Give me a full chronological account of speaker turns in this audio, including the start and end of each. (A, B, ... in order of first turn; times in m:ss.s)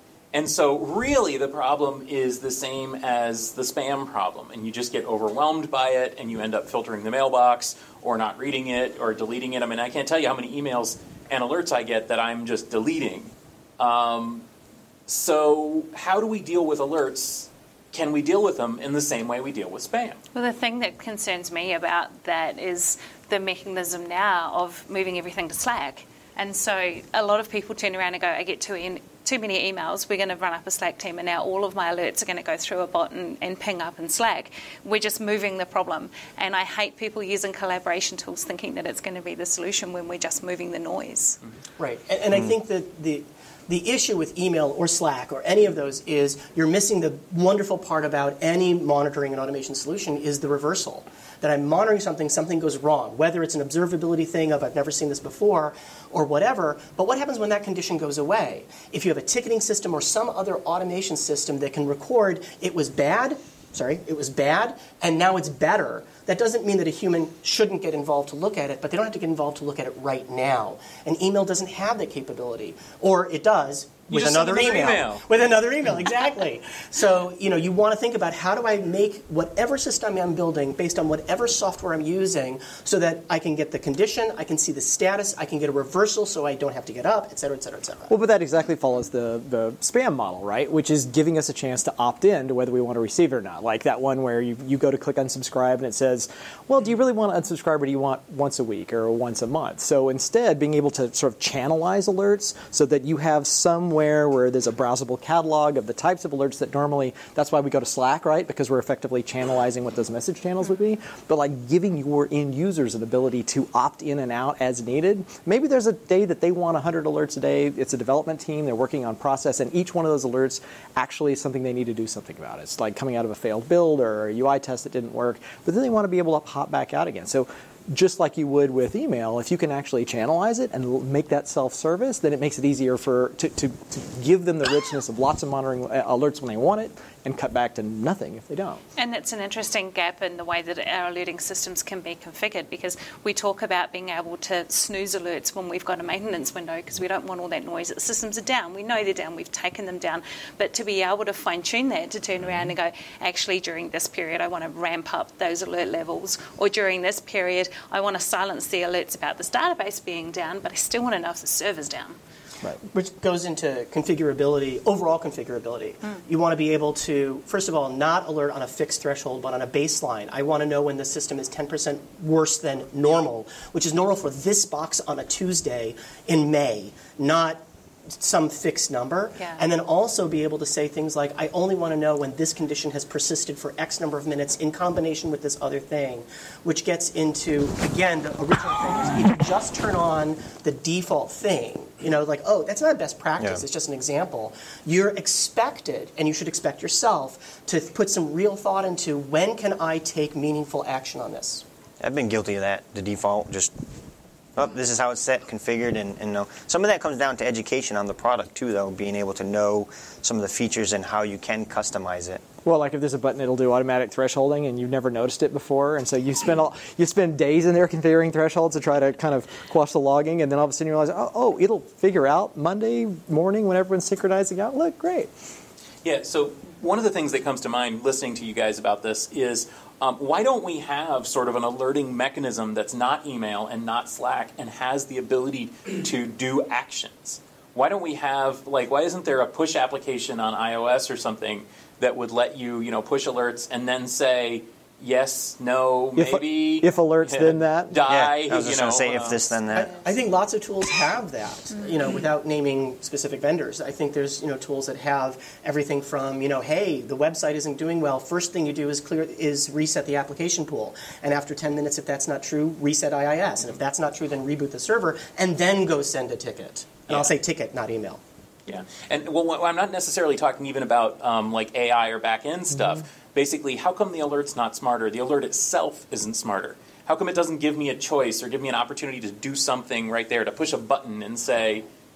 0:00.3-0:14.4 A
0:15.1-0:20.2 A
0:20.3-0:41.4 B
0:41.8-1:28.1 C
1:14.1-1:15.2 A
1:28.1-2:18.8 D
2:19.0-2:42.2 B
2:42.9-2:57.6 C
2:58.2-3:21.6 C
3:22.0-3:23.7 E
3:24.6-3:32.4 E
3:32.6-3:45.3 D
3:46.0-4:09.5 A
4:06.2-4:08.0 D
4:08.1-4:09.9 E
4:09.7-4:28.2 C
4:28.7-4:41.8 A